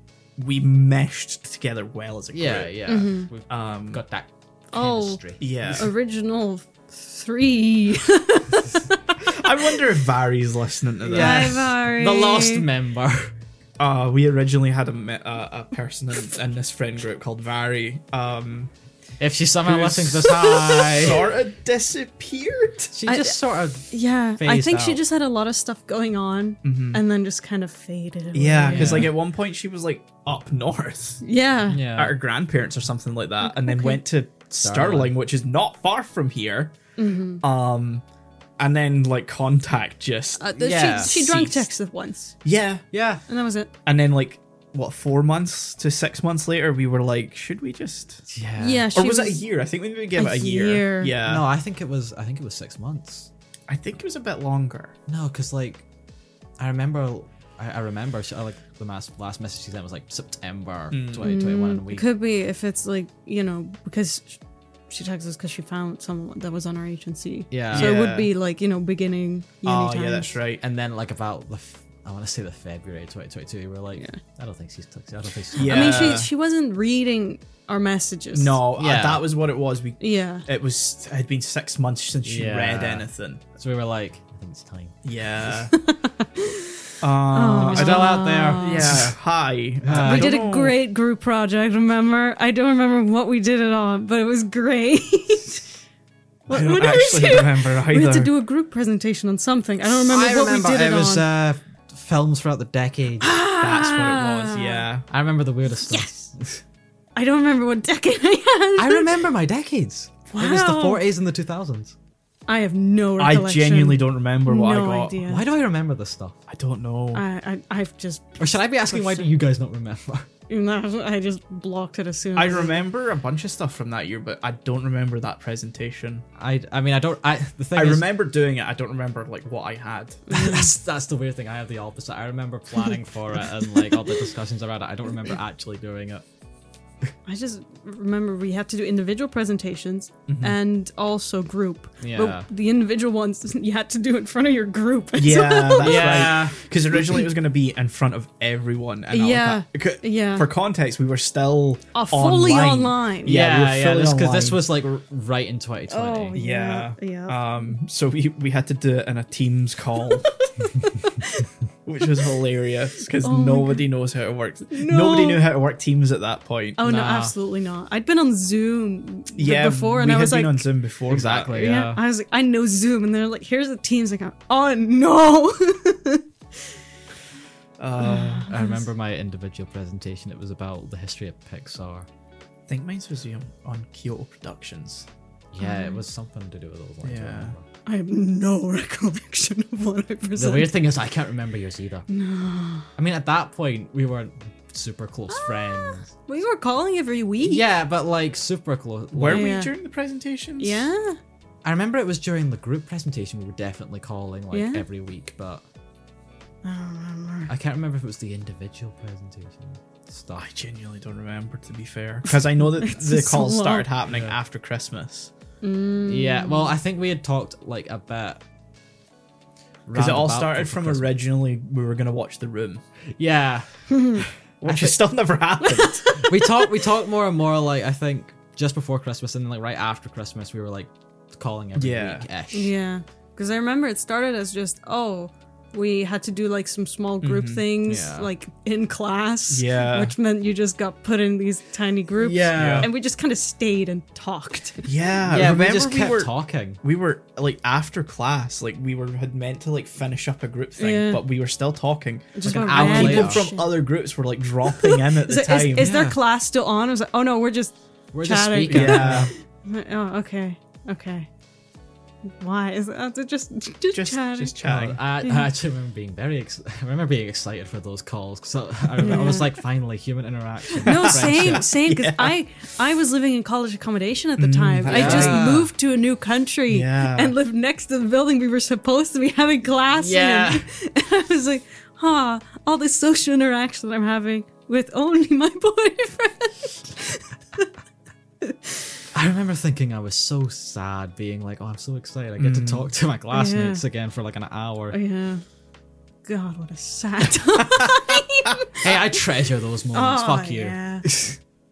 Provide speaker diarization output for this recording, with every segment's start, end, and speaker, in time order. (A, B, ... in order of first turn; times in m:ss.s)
0:00.4-0:02.9 A
0:02.3-0:05.8 B
0:02.9-0:03.3 C
0:03.5-0:04.0 A
0:04.7-0:09.2 C
0:05.4-0:05.9 A
0:09.3-0:11.6 A
0:11.0-0:13.3 B
0:11.1-0:12.7 C
0:13.8-0:18.7 A
0:19.2-0:21.3 B
0:19.6-0:22.9 A
0:22.9-0:25.0 B
0:23.1-0:23.4 C
0:23.9-0:29.1 C
0:26.6-0:27.0 A
0:28.3-0:31.2 A
0:28.7-0:29.1 B
0:31.2-0:31.8 C
0:31.7-0:32.2 B
0:31.9-0:36.8 A
0:33.4-0:34.0 C
0:34.6-0:35.1 B
0:37.0-0:37.4 C
0:37.4-0:38.0 A
0:38.6-0:41.7 A
0:40.4-0:42.4 C
0:40.6-0:41.3 B
0:42.4-0:42.9 A
0:42.9-0:43.2 B
0:43.3-0:43.7 C
0:43.9-0:48.3 A
0:48.3-0:48.9 B
0:48.6-0:49.5 C
0:48.9-0:51.4 A
0:50.2-0:51.2 C
0:51.2-0:53.3 B
0:53.7-0:55.0 A
0:55.1-0:55.8 B
0:56.6-1:02.1 B
1:00.9-1:01.3 A
1:01.2-1:04.4 C
1:04.9-1:10.3 C
1:07.5-1:08.0 B
1:07.7-1:08.3 A
1:09.6-1:10.6 A
1:10.6-1:16.2 B
1:15.6-1:16.3 A
1:15.6-1:18.6 C
1:18.3-1:23.4 A
1:18.8-1:19.3 B
1:20.0-1:20.4 C
1:22.2-1:25.0 B
1:25.0-1:25.7 A
1:25.7-1:26.7 C
1:27.0-1:30.8 A
1:27.3-1:29.0 C
1:27.6-1:29.2 B
1:29.8-1:30.4 B
1:30.0-1:35.7 C
1:36.5-1:41.2 C
1:36.5-1:38.3 A
1:39.9-1:43.3 B
1:43.2-1:44.8 C
1:43.6-1:45.1 A
1:45.1-1:46.6 B
1:45.8-1:46.3 C
1:47.2-1:49.2 C
1:48.8-1:51.9 B
1:50.3-1:51.0 C
1:52.5-1:55.4 C
1:53.2-1:55.4 A
1:55.2-1:56.4 B
1:56.5-1:57.2 A
1:57.1-1:59.3 C
1:58.4-2:00.3 B
2:00.5-2:02.8 C
2:02.4-2:06.2 A
2:06.4-2:08.1 B
2:07.8-2:10.2 A
2:10.3-2:10.7 C
2:10.3-2:16.2 B
2:17.3-2:26.5 C
2:20.3-2:20.6 A
2:22.0-2:22.5 B
2:25.2-2:34.6 A
2:25.8-2:26.6 B
2:29.1-2:30.5 C
2:32.0-2:33.3 C
2:33.3-2:36.4 B
2:35.9-2:37.7 C
2:36.3-2:40.3 A
2:40.1-2:40.5 C
2:41.0-2:41.5 C
2:41.9-2:46.8 A
2:43.2-2:43.9 C
2:44.7-2:45.4 C
2:46.8-2:50.6 C
2:46.8-2:47.3 B
2:49.4-2:51.6 A
2:51.1-2:52.0 B
2:51.5-2:56.2 C
2:57.8-2:58.5 A
2:58.1-2:58.8 C
2:58.5-3:02.1 B
3:02.7-3:05.1 A
3:05.5-3:07.6 B
3:05.6-3:06.0 C
3:07.0-3:07.6 A
3:07.9-3:10.7 C
3:10.4-3:12.1 B
3:12.1-3:12.9 C
3:13.0-3:16.1 B
3:15.3-3:17.6 C
3:17.4-3:19.5 B
3:19.1-3:20.9 A
3:19.3-3:19.7 C
3:20.6-3:21.2 C
3:21.6-3:25.6 B
3:24.5-3:24.8 C
3:26.6-3:27.5 C
3:27.5-3:30.5 B
3:30.4-3:35.3 A
3:32.8-3:33.9 C
3:34.1-3:34.4 B
3:35.6-3:36.8 C
3:36.0-3:38.4 B
3:39.9-3:41.2 B
3:39.9-3:42.8 A
3:43.2-3:45.0 B
3:43.9-3:44.2 C
3:44.6-3:46.1 A
3:45.6-3:46.7 C
3:46.2-3:52.7 B
3:51.8-3:52.3 A
3:52.5-4:04.9 C
3:57.2-3:57.6 A
3:57.9-3:58.3 B
3:59.5-4:00.1 A
4:02.2-4:02.9 B
4:02.6-4:02.9 A
4:04.8-4:15.9 A
4:05.3-4:06.8 B
4:10.8-4:11.2 C
4:12.4-4:13.7 C
4:12.4-4:13.4 B
4:14.7-4:21.3 C
4:15.8-4:16.2 B
4:18.1-4:19.3 B
4:18.7-4:19.3 A
4:22.4-4:24.6 C
4:23.9-4:25.0 A
4:24.6-4:31.7 B
4:25.2-4:25.5 C
4:29.0-4:29.6 C
4:30.8-4:47.7 C
4:30.9-4:32.4 A
4:34.4-4:35.5 A
4:34.9-4:35.7 B
4:36.7-4:37.3 A
4:40.0-4:40.6 B
4:48.4-4:48.9 C
4:49.1-4:55.0 B
4:52.4-4:52.9 A
4:53.3-4:53.8 C
4:54.9-4:55.4 C
4:56.2-4:59.0 C
4:58.8-5:01.4 B
4:59.9-5:01.1 C